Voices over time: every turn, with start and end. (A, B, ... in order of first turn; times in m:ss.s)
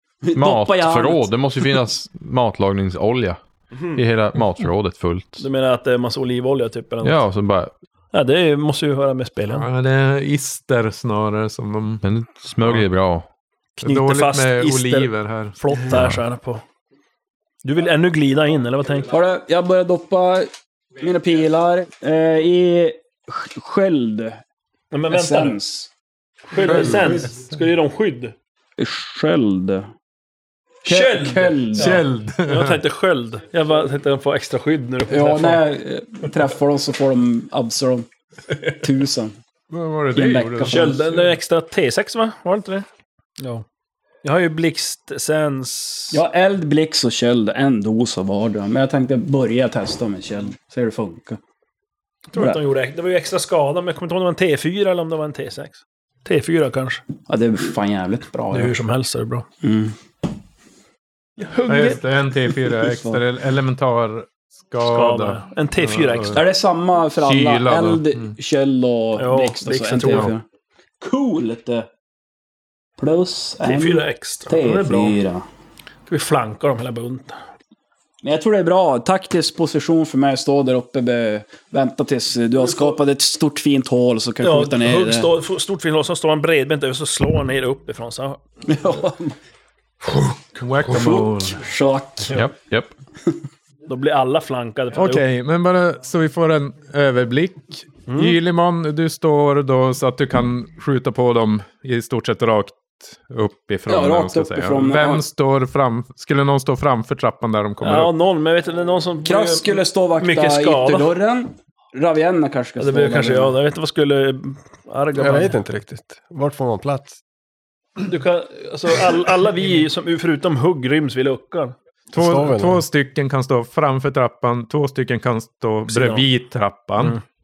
0:00.2-0:01.3 A
0:00.3-0:03.4 B
0:03.9-0:05.5 B
0:05.4-0:07.2 C
0:07.0-0:07.7 B
0:08.1-0:09.7 C
0:09.5-0:12.0 D
0:12.0-0:13.3 B
0:13.8-0:16.6 C
0:13.8-0:15.6 D
0:15.8-0:16.2 B
0:17.6-0:19.1 C
0:19.1-0:24.4 A
0:24.9-0:25.6 C
0:25.1-0:25.9 A
0:26.5-0:28.3 C
0:26.6-0:27.1 A
0:28.8-0:29.9 A
0:30.8-0:35.7 C
0:30.8-0:32.0 A
0:31.7-0:32.8 D
0:35.1-0:38.1 A
0:38.7-0:39.4 A
0:39.7-0:41.2 D
0:40.1-0:41.0 A
0:40.6-0:42.9 C
0:43.4-0:43.6 C
0:44.2-0:46.2 C
0:46.1-0:51.4 A
0:52.3-0:57.0 C
0:52.4-0:52.6 A
0:57.3-0:58.8 A
0:58.5-0:59.5 C
0:59.6-1:00.0 A
1:01.4-1:02.1 C
1:01.7-1:06.4 D
1:02.8-1:03.2 A
1:04.8-1:06.4 C
1:06.3-1:10.4 A
1:07.2-1:08.3 D
1:09.2-1:10.3 C
1:09.9-1:10.3 D
1:11.0-1:11.9 A
1:13.0-1:15.4 A
1:13.6-1:15.2 C
1:16.1-1:17.4 C
1:18.2-1:25.3 A
1:24.4-1:28.4 C
1:28.7-1:29.4 A
1:30.6-1:31.6 D
1:30.8-1:32.3 A
1:32.3-1:32.9 B
1:33.9-1:35.2 C
1:34.9-1:48.1 D
1:38.1-1:38.4 C
1:43.9-1:45.2 A
1:47.8-1:51.2 C
1:49.2-1:53.6 A
1:52.8-1:55.6 C
1:55.2-1:57.2 E
1:58.0-2:01.8 C
2:02.1-2:07.2 D
2:02.1-2:02.8 E
2:05.9-2:06.3 C